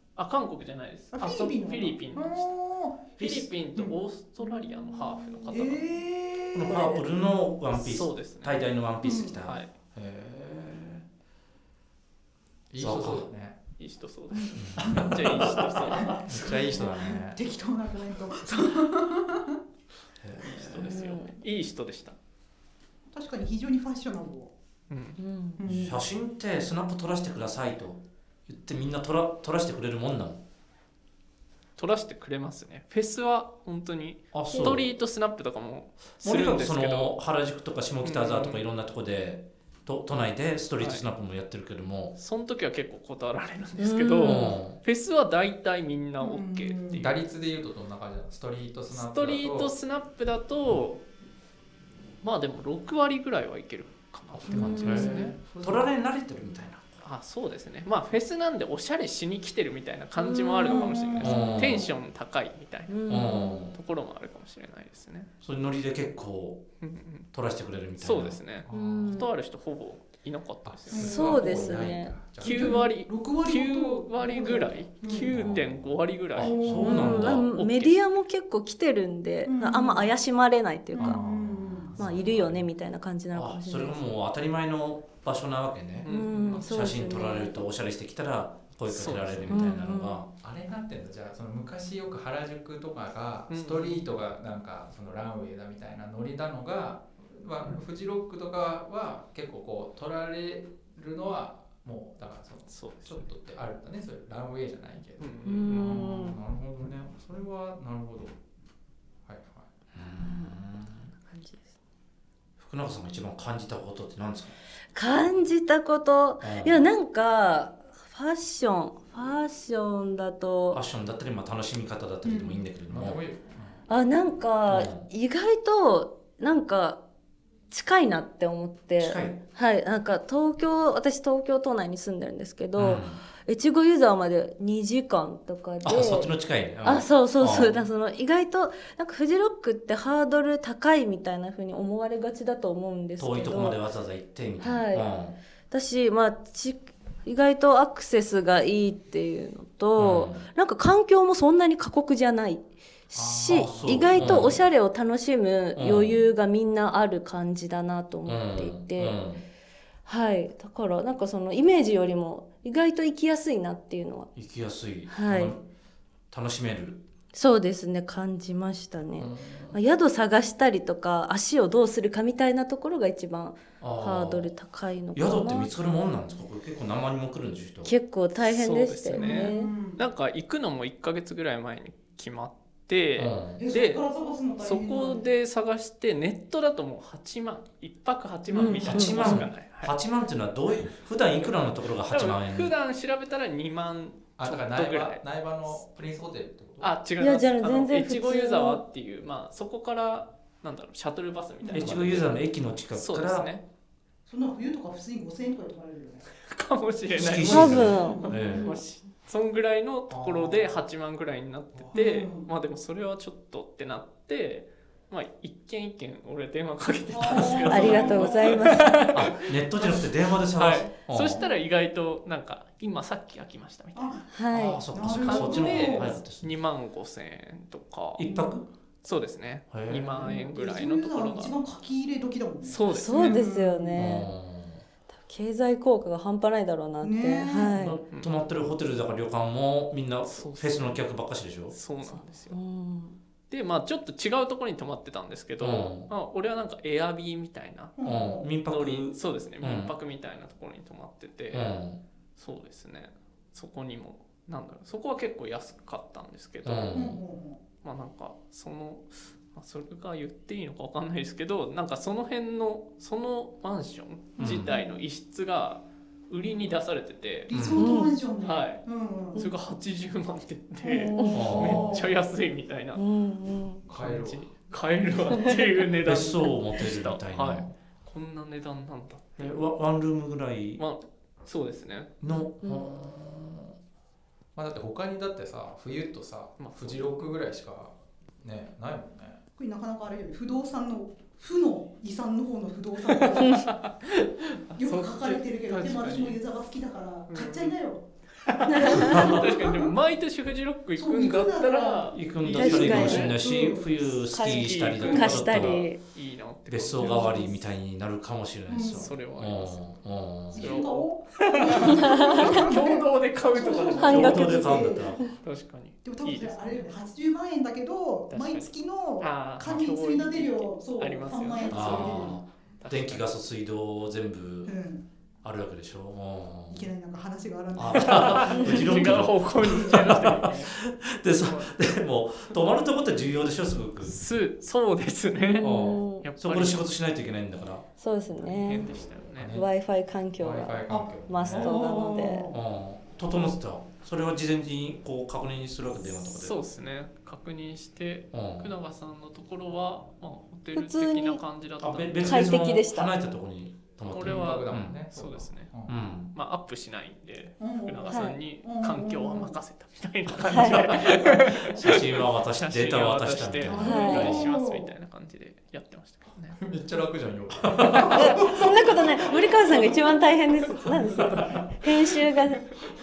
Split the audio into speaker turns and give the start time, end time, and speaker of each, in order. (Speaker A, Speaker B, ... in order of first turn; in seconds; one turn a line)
Speaker A: 0.2-2.5
Speaker B: 1.1-4.0
Speaker A: 3.2-6.0
Speaker C: 4.9-5.5
Speaker B: 5.5-7.0
Speaker D: 6.5-9.6
Speaker A: 7.7-8.7
Speaker B: 9.0-9.4
Speaker A: 9.4-9.7
Speaker E: 9.9-11.0
Speaker E: 12.7-13.6
Speaker D: 12.8-13.3
Speaker A: 13.8-16.5
Speaker D: 14.5-15.4
Speaker B: 14.8-19.6
Speaker E: 16.0-17.4
Speaker D: 20.2-20.9
Speaker A: 20.4-22.2
Speaker C: 20.8-21.4
Speaker B: 23.1-24.5
Speaker A: 24.9-25.2
Speaker C: 25.2-25.6
Speaker B: 25.6-26.0
Speaker D: 25.7-30.4
Speaker A: 31.8-37.2
Speaker D: 34.3-34.9
Speaker C: 34.5-34.8
Speaker D: 36.2-42.2
Speaker A: 38.0-38.7
Speaker A: 40.8-41.1
Speaker A: 42.2-47.2
Speaker C: 43.8-44.6
Speaker D: 44.2-44.8
Speaker B: 46.2-47.1
Speaker E: 46.9-49.7
Speaker A: 48.9-51.0
Speaker A: 52.2-55.3
Speaker D: 54.3-57.0
Speaker E: 54.5-55.9
Speaker C: 54.5-55.3
Speaker A: 57.0-63.1
Speaker C: 60.2-61.2
Speaker B: 60.6-61.3
Speaker D: 61.2-61.9
Speaker C: 62.9-63.6
Speaker D: 63.1-63.7
Speaker A: 63.6-65.3
Speaker D: 65.4-66.6
Speaker A: 66.8-67.3
Speaker D: 67.3-68.4
Speaker A: 68.0-71.4
Speaker E: 68.7-69.1
Speaker C: 68.7-69.3
Speaker E: 70.7-72.9
Speaker B: 70.9-71.7
Speaker C: 70.9-72.2
Speaker A: 72.4-78.0
Speaker B: 72.4-75.4
Speaker D: 75.3-77.5
Speaker B: 76.4-77.2
Speaker C: 76.8-81.2
Speaker B: 79.5-80.1
Speaker B: 80.9-81.9
Speaker E: 81.0-82.6
Speaker C: 82.0-84.0
Speaker D: 82.0-82.6
Speaker D: 83.3-90.3
Speaker A: 86.0-86.7
Speaker C: 86.1-87.6
Speaker A: 88.9-89.7
Speaker C: 89.5-90.2
Speaker E: 90.4-108.4
Speaker A: 93.5-94.1
Speaker A: 102.7-103.2
Speaker A: 105.2-106.0
Speaker C: 105.5-106.4
Speaker E: 109.3-109.7
Speaker D: 109.9-111.1
Speaker C: 110.2-111.6
Speaker D: 112.6-114.5
Speaker C: 115.0-120.8
Speaker D: 116.4-116.8
Speaker D: 120.7-123.2
Speaker B: 122.2-122.6
Speaker E: 122.9-123.8
Speaker C: 123.9-127.0
Speaker D: 124.7-125.1
Speaker C: 127.7-143.8
Speaker D: 129.0-129.4
Speaker D: 132.8-133.2
Speaker D: 135.8-137.8
Speaker D: 143.2-145.4
Speaker C: 144.6-145.1
Speaker C: 145.7-159.2
Speaker D: 150.0-150.4
Speaker E: 153.1-154.5
Speaker D: 153.5-154.6
Speaker D: 155.8-156.3
Speaker D: 158.3-159.4
Speaker C: 160.1-164.3
Speaker D: 164.3-165.6
Speaker C: 165.1-165.6
Speaker D: 166.3-167.1
Speaker C: 167.3-175.7
Speaker D: 169.2-169.8
Speaker D: 173.8-174.5
Speaker D: 175.1-177.9
Speaker C: 177.8-179.7
Speaker A: 178.4-184.1
Speaker B: 179.1-180.0
Speaker D: 183.2-183.6
Speaker B: 183.6-185.2
Speaker A: 184.6-189.9
Speaker C: 188.5-189.4
Speaker D: 188.8-192.7
Speaker A: 192.1-195.2
Speaker E: 194.4-196.9
Speaker A: 196.8-202.4
Speaker C: 197.2-198.8
Speaker D: 201.7-203.5
Speaker A: 202.9-203.6
Speaker B: 204.3-206.3
Speaker A: 206.3-220.0
Speaker D: 207.1-208.8
Speaker C: 207.4-208.8
Speaker B: 207.8-208.4
Speaker E: 210.1-210.7
Speaker B: 211.9-212.5
Speaker B: 217.1-218.8
Speaker D: 217.5-217.9
Speaker C: 217.7-219.0
Speaker D: 219.1-221.5
Speaker A: 220.6-224.2
Speaker B: 223.9-224.3
Speaker C: 224.3-224.8
Speaker D: 224.5-226.6
Speaker B: 224.9-226.2
Speaker A: 225.1-228.2
Speaker D: 228.2-228.7
Speaker B: 228.3-228.6
Speaker A: 229.0-231.6
Speaker D: 229.7-230.3
Speaker B: 230.2-234.0
Speaker A: 232.6-233.5
Speaker C: 232.9-234.3
Speaker D: 233.9-234.8
Speaker C: 235.2-238.0
Speaker B: 237.0-237.9
Speaker D: 237.7-241.8
Speaker A: 240.2-241.0
Speaker A: 241.7-242.6
Speaker C: 242.0-243.2
Speaker A: 243.5-247.9
Speaker D: 245.6-246.1
Speaker B: 248.0-248.5
Speaker D: 248.0-249.9
Speaker A: 248.7-251.8
Speaker D: 251.5-252.0
Speaker A: 252.4-257.0
Speaker D: 256.6-257.2
Speaker B: 256.9-257.6
Speaker A: 257.8-267.5
Speaker D: 264.4-264.8
Speaker B: 267.5-269.4
Speaker D: 267.5-267.9
Speaker C: 267.8-268.1
Speaker A: 268.4-273.0
Speaker B: 270.8-272.1
Speaker C: 271.1-271.7
Speaker D: 271.3-272.1
Speaker C: 272.9-273.8
Speaker E: 273.9-274.5
Speaker A: 273.9-279.6
Speaker D: 276.0-277.7
Speaker D: 279.4-280.8
Speaker A: 280.8-282.2
Speaker D: 282.2-283.7
Speaker E: 284.6-289.4
Speaker A: 286.6-287.1
Speaker B: 289.6-293.7
Speaker A: 293.1-296.4
Speaker B: 294.8-298.1
Speaker A: 297.3-297.8
Speaker A: 298.4-303.4
Speaker B: 298.7-299.9
Speaker C: 298.7-299.1
Speaker D: 299.0-299.4
Speaker B: 301.0-304.3
Speaker D: 302.1-305.9
Speaker C: 302.5-303.3
Speaker C: 304.3-306.0
Speaker A: 304.3-307.5
Speaker D: 306.7-310.9
Speaker C: 307.0-307.5
Speaker B: 307.0-307.4
Speaker B: 308.7-309.1
Speaker A: 308.8-309.9
Speaker B: 310.5-315.2
Speaker A: 310.5-316.9
Speaker C: 312.0-312.6
Speaker C: 314.0-314.7
Speaker D: 314.0-315.3
Speaker B: 316.0-322.4
Speaker A: 318.3-323.3
Speaker D: 321.7-324.8
Speaker B: 324.7-325.0
Speaker D: 325.4-326.9
Speaker B: 326.7-329.8
Speaker D: 327.8-334.2
Speaker A: 327.9-330.8
Speaker A: 331.4-331.8
Speaker A: 334.0-336.9
Speaker C: 335.5-336.3
Speaker D: 335.6-337.9
Speaker C: 338.0-338.9
Speaker A: 338.4-339.6
Speaker E: 339.4-339.7
Speaker C: 339.5-342.5
Speaker E: 340.4-341.8
Speaker B: 340.9-342.6
Speaker D: 342.5-346.6
Speaker A: 346.0-352.6
Speaker D: 348.3-348.7
Speaker C: 350.7-351.4
Speaker D: 351.8-355.0
Speaker C: 352.2-353.1
Speaker A: 354.1-366.6
Speaker E: 354.2-355.9
Speaker D: 355.9-356.3
Speaker B: 357.6-359.6
Speaker C: 358.1-358.4
Speaker C: 360.5-361.0
Speaker D: 361.0-364.5
Speaker B: 363.7-364.9
Speaker C: 363.7-364.4
Speaker E: 366.6-369.9
Speaker D: 367.6-368.1
Speaker B: 367.9-368.6
Speaker C: 368.1-372.7
Speaker A: 369.5-370.1
Speaker A: 370.7-372.4